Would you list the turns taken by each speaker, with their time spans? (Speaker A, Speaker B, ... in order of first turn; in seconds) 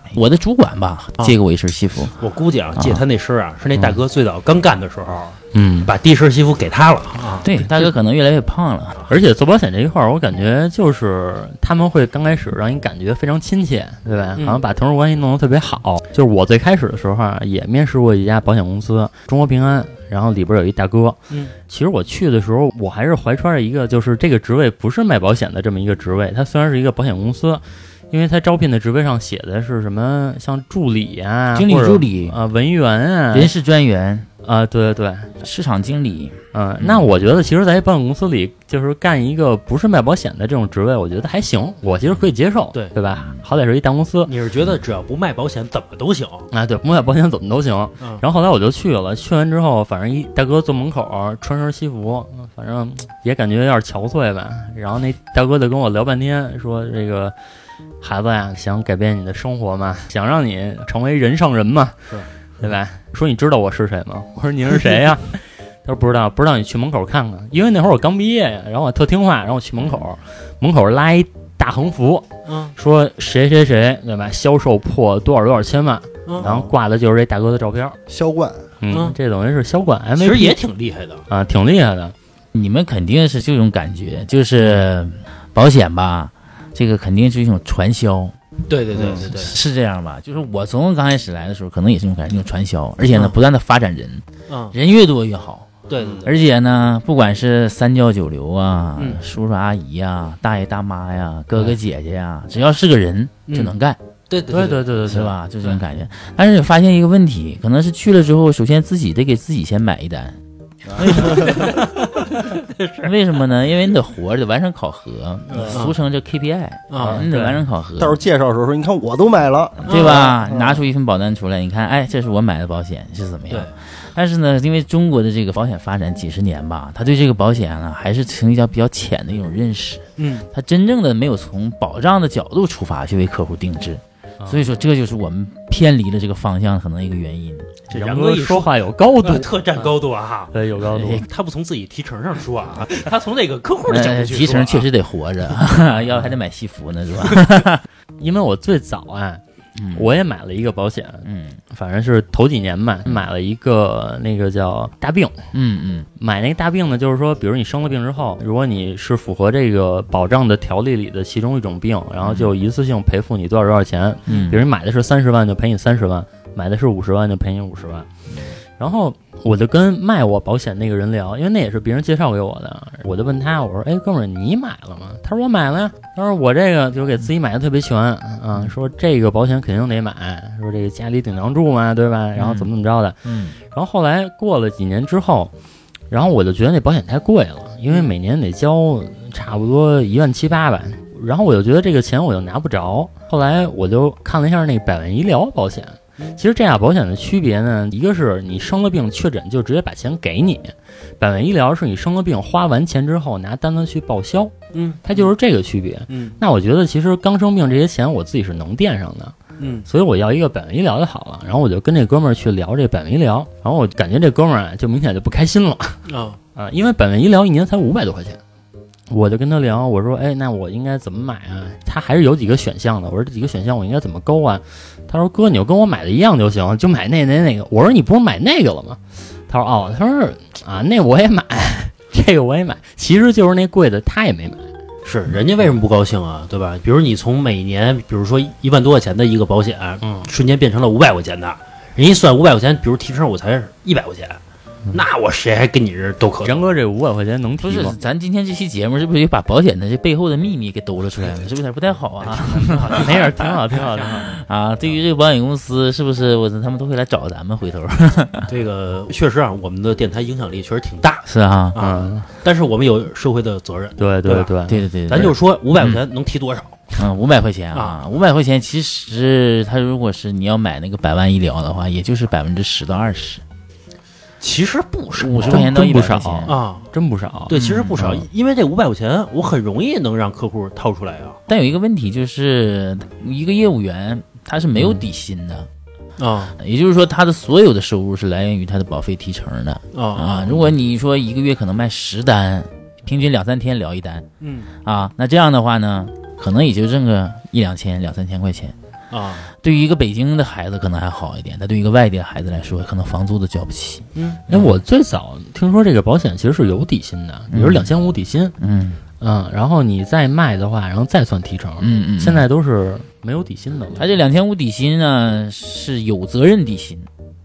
Speaker A: 0.1-2.1, 2.8-3.0, 7.4-9.1, 31.5-32.4, 33.3-34.3, 35.4-37.0, 82.5-88.3, 89.2-104.0, 105.0-110.4, 111.0-111.8, 113.0-118.2, 119.8-137.8, 140.9-141.2, 143.9-147.8, 149.8-150.1, 151.2-151.6, 155.5-156.1, 162.2-162.5, 164.3-164.6, 182.3-182.7, 183.2-183.6, 247.6-253.2, 254.2-258.5, 261.2-261.8, 264.7-266.0, 267.0-273.4, 275.1-276.5, 277.5-278.2, 281.5-285.7, 286.6-294.3, 294.8-298.7, 299.6-304.8, 307.5-307.9, 308.6-309.0, 311.8-312.5, 313.9-317.1
Speaker B: 2.2-7.5, 44.2-46.5, 72.5-72.7, 78.9-79.1, 80.2-81.2, 88.7-89.5, 93.0-93.3, 94.5-94.7, 95.9-96.2, 103.5-103.7, 104.3-104.8, 111.3-113.1, 115.7-116.0, 116.9-117.2, 119.9-120.3, 130.2-130.5, 137.9-140.5, 141.2-144.9, 145.7-145.9, 204.7-205.3, 206.1-206.4, 209.6-209.9, 216.1-216.4, 235.0-244.4, 244.9-246.7, 253.7-254.2, 258.5-264.6, 265.1-266.8, 267.7-268.0, 274.4-275.8, 276.5-276.9, 277.5-281.4, 286.2-286.6, 289.9-290.7, 294.4-294.7, 299.1-299.5, 304.1-304.4
Speaker C: 5.5-5.9, 9.1-33.5, 34.4-35.3, 36.5-44.3, 46.5-57.3, 58.0-78.0, 78.8-80.6, 81.3-82.1, 104.5-105.8, 117.0-117.6, 137.9-140.0, 140.5-141.2, 148.2-149.4, 149.9-155.3, 156.2-168.1, 168.8-185.5, 186.1-209.3, 209.8-216.0, 216.6-218.4, 219.1-234.7, 240.0-240.3, 246.4-248.0, 252.2-254.3, 261.8-262.3, 264.0-264.8, 275.5-278.2, 284.7-285.0, 304.5-308.5, 309.2-314.1
Speaker D: 76.4-76.7, 78.1-78.7, 88.9-89.2, 96.0-96.3, 110.8-111.7, 115.5-115.8, 118.0-120.8